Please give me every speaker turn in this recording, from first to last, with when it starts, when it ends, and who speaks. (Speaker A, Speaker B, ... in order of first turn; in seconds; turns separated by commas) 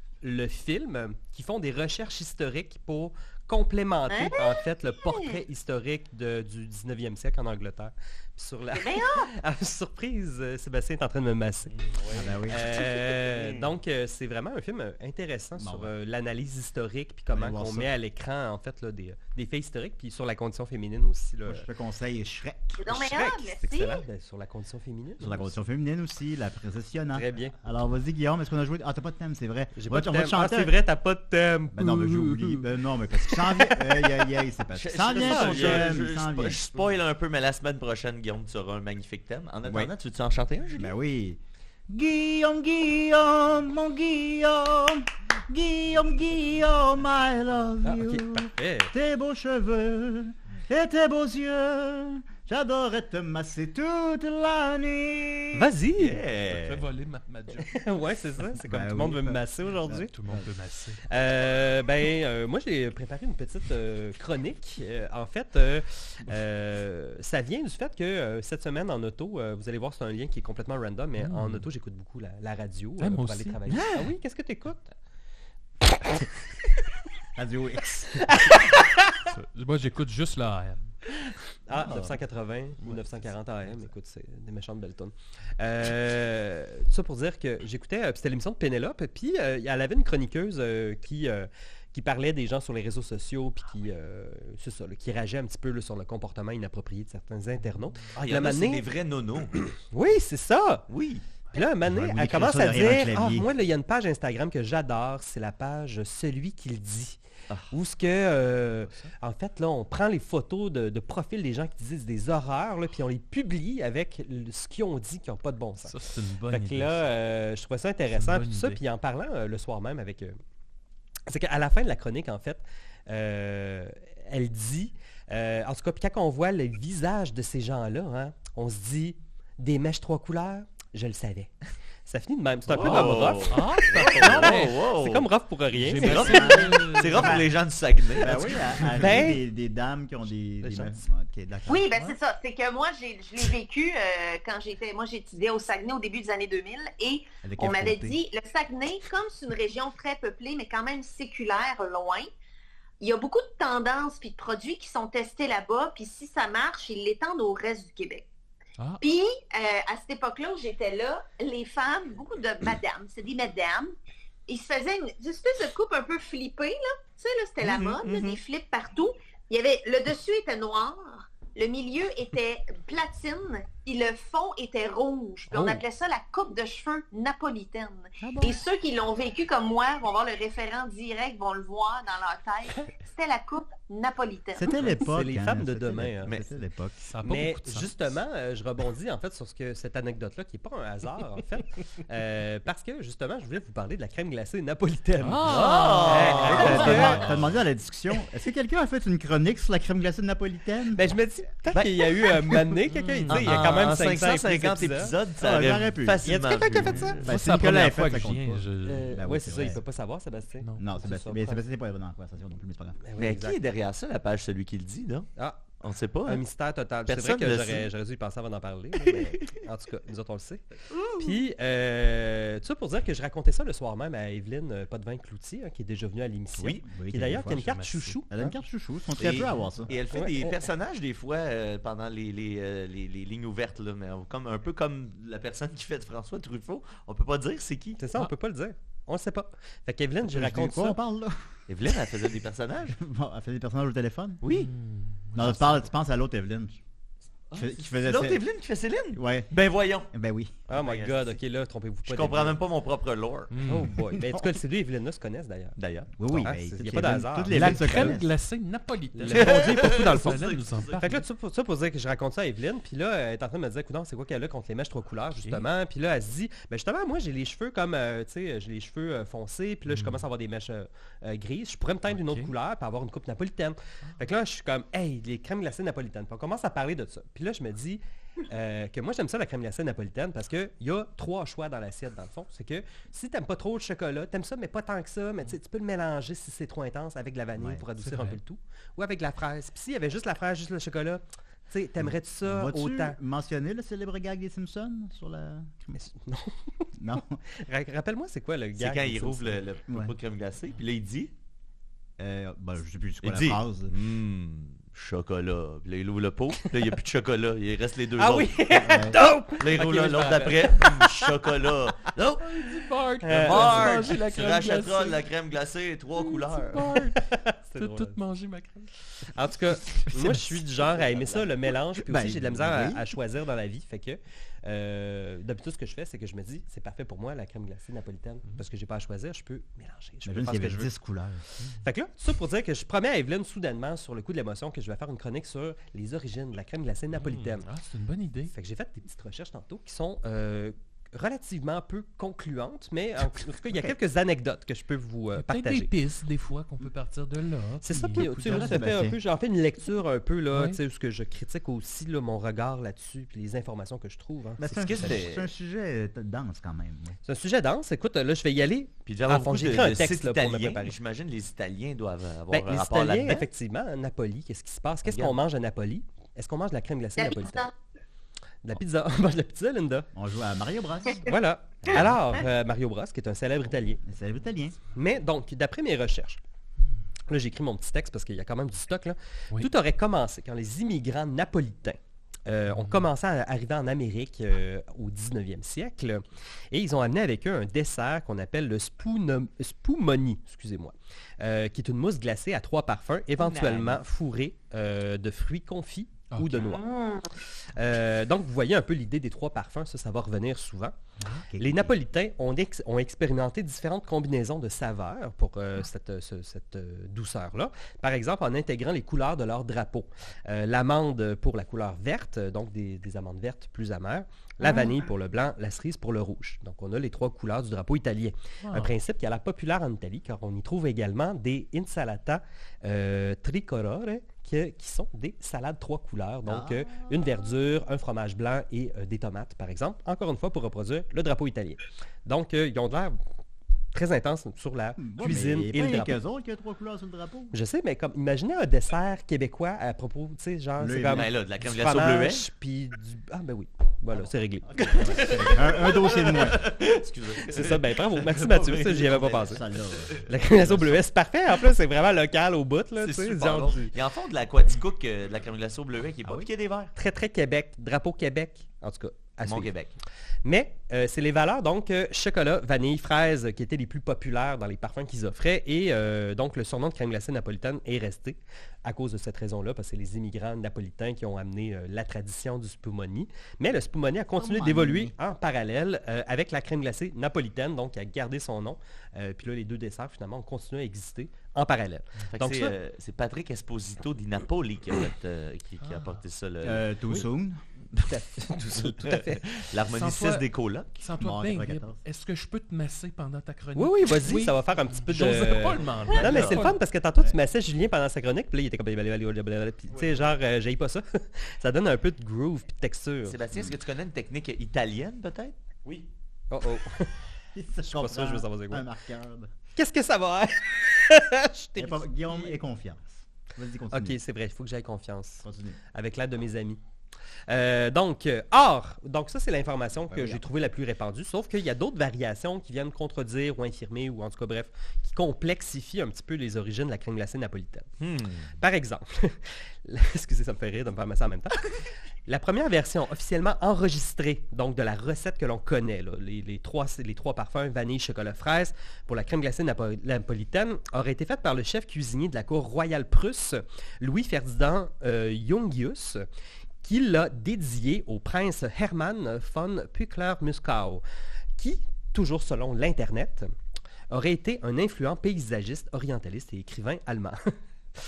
Speaker A: 0.2-11.8, Speaker B: 4.1-5.4, Speaker B: 8.7-9.3, Speaker C: 11.8-12.3, Speaker D: 12.1-12.7, Speaker A: 12.5-21.7, Speaker D: 15.6-15.9, Speaker D: 17.3-17.9, Speaker D: 21.4-23.0, Speaker B: 22.8-24.0, Speaker A: 22.9-25.5, Speaker D: 25.2-30.7, Speaker A: 27.1-27.5, Speaker A: 29.8-32.7, Speaker D: 31.7-36.8, Speaker A: 33.2-34.0, Speaker E: 34.7-40.9, Speaker A: 35.1-35.9, Speaker D: 39.6-39.9, Speaker D: 40.8-55.7, Speaker A: 47.8-48.9, Speaker A: 55.5-56.2, Speaker E: 56.0-56.9, Speaker C: 56.5-57.7, Speaker A: 57.7-60.1, Speaker D: 58.6-60.5, Speaker C: 60.0-61.0, Speaker A: 61.1-74.9, Speaker C: 71.2-71.7, Speaker C: 73.0-73.9, Speaker D: 77.3-78.4, Speaker A: 78.2-79.2, Speaker C: 79.2-80.9, Speaker A: 81.7-98.8, Speaker D: 81.8-82.1, Speaker E: 98.1-99.6, Speaker A: 99.6-100.8, Speaker E: 100.9-101.2, Speaker A: 101.5-107.2, Speaker D: 101.8-103.5, Speaker A: 107.7-120.4, Speaker C: 108.8-109.1, Speaker C: 115.8-117.0, Speaker C: 118.1-118.8, Speaker A: 121.3-131.5, Speaker A: 132.1-136.6, Speaker E: 132.7-135.3, Speaker C: 132.8-134.8, Speaker C: 135.7-137.4, Speaker E: 136.0-138.7, Speaker D: 136.1-137.5, Speaker D: 138.2-141.9, Speaker A: 138.9-139.4, Speaker B: 141.7-152.3, Speaker D: 147.4-148.2, Speaker B: 153.0-158.2, Speaker B: 159.0-163.9, Speaker B: 164.5-184.9, Speaker E: 167.6-168.4, Speaker C: 175.5-175.8, Speaker D: 178.2-178.6, Speaker D: 184.6-187.0, Speaker A: 184.9-186.3, Speaker E: 186.2-186.5, Speaker C: 187.0-188.0, Speaker A: 187.2-197.3, Speaker C: 195.2-197.6, Speaker E: 195.4-197.2, Speaker D: 196.5-201.1, Speaker A: 200.9-205.1, Speaker E: 201.7-202.3, Speaker C: 202.9-203.9, Speaker E: 203.3-207.3, Speaker D: 205.4-209.8, Speaker A: 206.2-207.2, Speaker C: 207.2-209.2, Speaker A: 208.8-211.6, Speaker C: 210.6-210.9, Speaker D: 210.8-213.0, Speaker A: 213.0-213.6, Speaker E: 213.2-216.4, Speaker A: 215.3-215.6, Speaker A: 216.2-220.6, Speaker E: 217.1-217.9, Speaker E: 219.0-219.5, Speaker A: 221.2-228.6, Speaker D: 226.6-227.7, Speaker C: 227.4-228.2, Speaker D: 228.3-229.9, Speaker E: 229.2-238.0, Speaker A: 230.1-230.6, Speaker A: 238.0-241.0, Speaker D: 240.2-242.1, Speaker E: 241.7-243.0, Speaker D: 242.9-244.4, Speaker E: 244.4-244.7, Speaker C: 244.5-245.8, Speaker D: 245.3-246.8, Speaker E: 247.5-250.1, Speaker D: 247.5-248.4, Speaker D: 249.1-249.5, Speaker D: 250.1-250.6, Speaker E: 250.7-251.4, Speaker A: 250.7-252.6, Speaker E: 252.1-253.5, Speaker C: 253.5-253.9, Speaker A: 253.6-258.2, Speaker D: 254.1-254.5, Speaker E: 255.8-256.1, Speaker D: 256.2-258.3, Speaker C: 257.5-261.2, Speaker A: 259.1-260.4, Speaker E: 259.3-261.0, Speaker A: 261.0-293.2, Speaker C: 265.4-265.6, Speaker C: 269.9-270.2, Speaker C: 272.1-272.5, Speaker D: 287.6-287.8, Speaker C: 288.0-288.4, Speaker D: 292.0-295.9, Speaker A: 295.9-296.9, Speaker D: 297.0-297.4, Speaker A: 297.5-299.6, Speaker E: 298.8-301.3, Speaker D: 299.9-300.1, Speaker D: 302.2-303.9, Speaker E: 303.2-312.7, Speaker A: 308.2-311.3, Speaker D: 308.8-309.2, Speaker C: 312.4-315.2, Speaker A: 313.2-314.0, Speaker E: 313.3-317.0, Speaker C: 316.1-317.2, Speaker A: 317.1-318.2, Speaker C: 317.8-318.9, Speaker A: 319.3-330.9, Speaker D: 322.0-323.1, Speaker D: 330.2-331.4, Speaker A: 331.8-337.7, Speaker C: 337.1-338.5, Speaker A: 338.5-345.9, Speaker C: 345.3-349.0, Speaker A: 347.8-355.2, Speaker D: 348.1-349.2, Speaker C: 350.5-350.8, Speaker D: 354.6-357.1, Speaker E: 354.6-355.5, Speaker A: 357.2-360.9, Speaker E: 359.1-363.5, Speaker A: 362.5-367.7, Speaker E: 365.1-365.4, Speaker B: 367.2-367.7, Speaker A: 368.6-370.1, Speaker D: 370.1-371.3, Speaker A: 371.2-374.0, Speaker D: 371.8-372.1, Speaker D: 374.0-374.8, Speaker A: 374.9-376.4, Speaker A: 377.3-396.8, Speaker C: 382.7-383.1, Speaker D: 393.4-394.0, Speaker C: 396.3-396.6, Speaker B: 396.6-397.3, Speaker A: 397.7-400.9, Speaker D: 401.2-401.9, Speaker A: 401.6-433.1, Speaker B: 414.6-414.9, Speaker C: 418.6-418.9, Speaker D: 426.4-427.1, Speaker A: 433.9-436.2, Speaker D: 435.0-437.5, Speaker A: 437.5-444.7, Speaker D: 440.8-441.3, Speaker E: 441.1-442.5, Speaker D: 444.1-446.7, Speaker E: 444.8-450.9, Speaker A: 447.4-449.6, Speaker D: 449.4-450.2, Speaker A: 450.2-453.9, Speaker E: 453.0-456.9, Speaker A: 456.9-459.7, Speaker E: 459.4-459.9, Speaker A: 460.4-482.7, Speaker D: 474.4-475.1, Speaker E: 482.3-487.2, Speaker C: 485.8-486.2, Speaker D: 486.6-487.6, Speaker A: 488.0-489.4, Speaker E: 488.7-490.9, Speaker C: 489.9-490.4, Speaker C: 491.0-496.8, Speaker D: 491.2-492.0, Speaker A: 493.7-503.4, Speaker E: 496.0-496.6, Speaker E: 503.2-506.0, Speaker A: 506.5-507.1, Speaker D: 507.5-509.5, Speaker A: 507.8-508.9, Speaker A: 509.8-512.5, Speaker D: 511.8-514.2, Speaker A: 513.9-516.8, Speaker D: 515.4-515.8, Speaker A: 517.5-527.9, Speaker D: 520.1-520.4, Speaker E: 528.0-528.5, Speaker A: 528.6-531.7, Speaker A: 532.2-546.2, Speaker A: 546.8-551.0, Speaker A: 551.6-553.5, Speaker A: 554.1-557.5